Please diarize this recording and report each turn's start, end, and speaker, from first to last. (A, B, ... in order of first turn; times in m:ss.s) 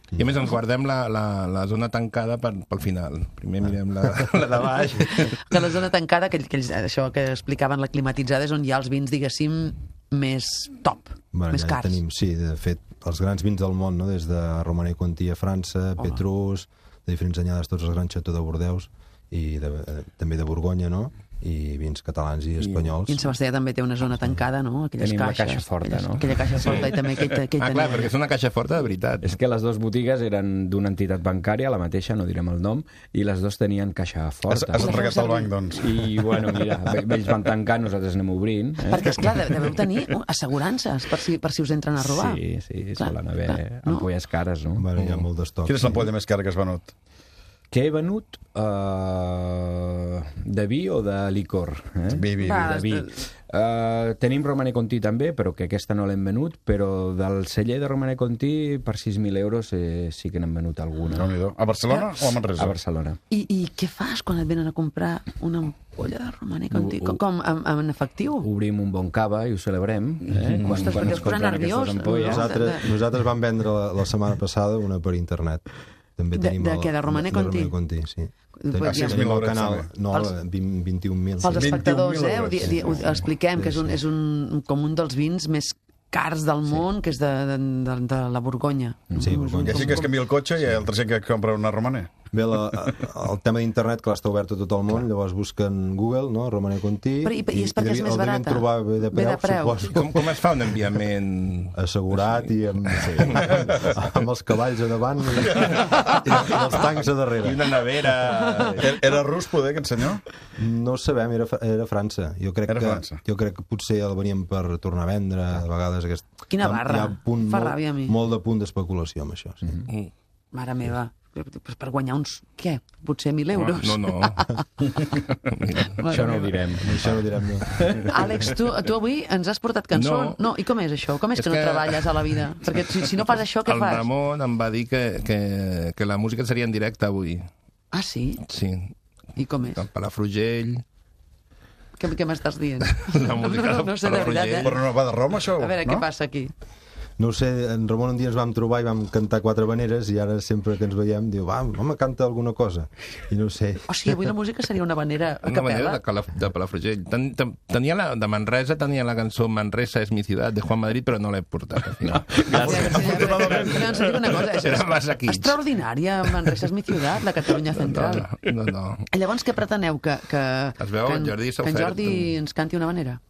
0:00.1-0:00.5 A
0:00.2-0:05.4 B
0:05.1-0:12.0 C
0:11.3-0:23.3 A
0:23.1-0:28.1 C
0:25.0-0:26.8 D
0:26.6-0:29.3 B
0:29.2-0:35.0 D
0:34.5-0:36.6 E
0:34.8-0:35.5 C
0:35.7-0:39.3 D
0:38.9-0:42.4 C
0:42.0-0:44.9 D
0:43.0-0:44.1 C
0:44.8-0:46.1 A
0:45.0-0:45.2 B
0:45.7-0:46.9 E
0:47.7-1:01.3 D
0:52.1-0:52.8 E
0:52.4-0:53.2 C
1:01.1-1:02.8 E
1:02.6-1:03.2 D
1:03.3-1:08.5 C
1:06.7-1:07.2 D
1:08.4-1:12.6 D
1:10.5-1:11.0 E
1:10.6-1:12.9 C
1:12.2-1:15.6 A
1:16.2-1:21.9 A
1:16.3-1:17.7 C
1:18.6-1:19.3 C
1:18.8-1:19.9 E
1:21.4-1:30.1 C
1:21.4-1:23.0 E
1:22.6-1:23.0 A
1:23.6-1:24.0 A
1:29.2-1:30.1 A
1:29.6-1:32.1 E
1:32.3-1:40.4 A
1:37.2-1:39.8 C
1:39.9-1:42.4 B
1:41.8-1:47.8 A
1:42.9-1:43.6 B
1:45.6-1:46.6 B
1:47.4-1:49.0 B
1:48.8-1:50.2 E
1:50.6-1:59.8 A
1:52.7-1:53.2 E
1:56.5-1:58.1 C
2:00.5-2:04.6 C
2:03.6-2:04.5 B
2:05.5-2:06.0 B
2:06.0-2:06.6 C
2:06.0-2:07.0 D
2:06.8-2:07.9 A
2:07.7-2:08.1 D
2:08.1-2:14.1 C
2:10.0-2:10.4 B
2:11.4-2:12.4 B
2:13.0-2:17.5 B
2:17.9-2:18.4 C
2:18.5-2:18.9 B
2:19.4-2:19.8 C
2:19.8-2:20.8 B
2:22.0-2:24.8 C
2:23.0-2:24.8 B
2:24.6-2:26.1 E
2:25.6-2:26.5 C
2:27.2-2:34.2 A
2:33.9-2:36.0 C
2:35.4-2:45.6 B
2:42.2-2:43.6 D
2:42.5-2:44.0 E
2:42.6-2:48.3 C
2:47.7-2:49.1 B
2:49.1-2:53.2 C
2:50.8-2:52.3 B